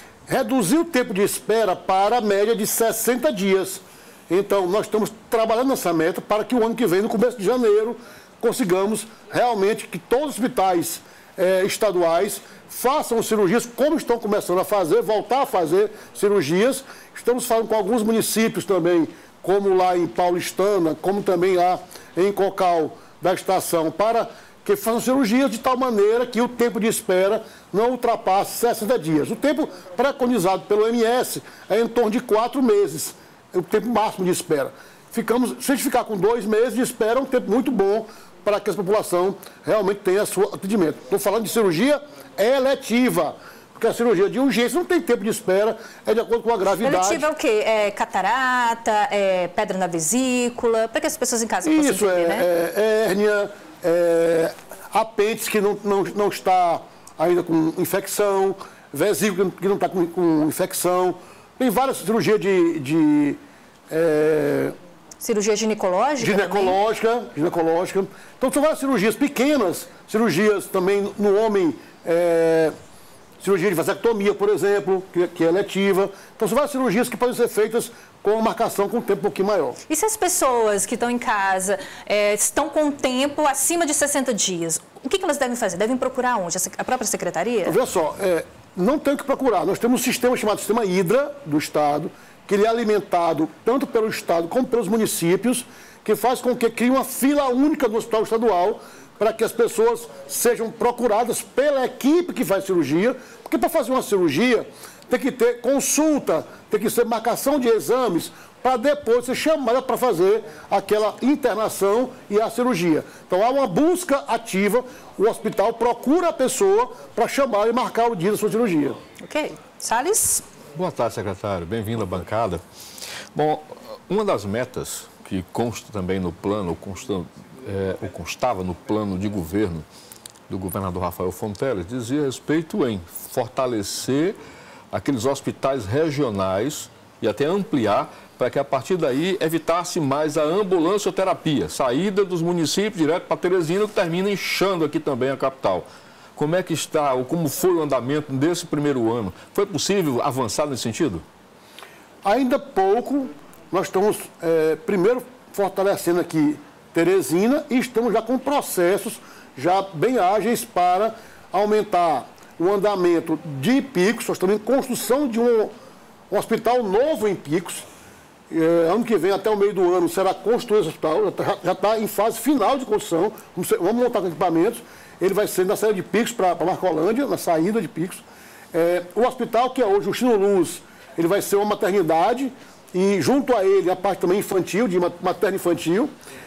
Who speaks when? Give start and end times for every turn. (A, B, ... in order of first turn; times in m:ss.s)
0:00.3-0:47.3 A
0:46.8-0:52.5 B
0:51.6-1:03.4 A
1:03.9-1:04.7 A
1:05.2-1:06.8 B
1:06.2-1:12.7 A
1:13.4-1:19.8 A
1:19.9-1:27.8 B
1:27.6-1:59.0 A
1:59.2-2:00.4 B
2:00.8-2:02.6 C
2:03.4-2:09.8 C
2:10.5-2:14.4 C
2:14.9-2:31.2 C
2:32.2-2:45.7 A
2:46.3-2:47.8 A
2:48.5-3:06.1 A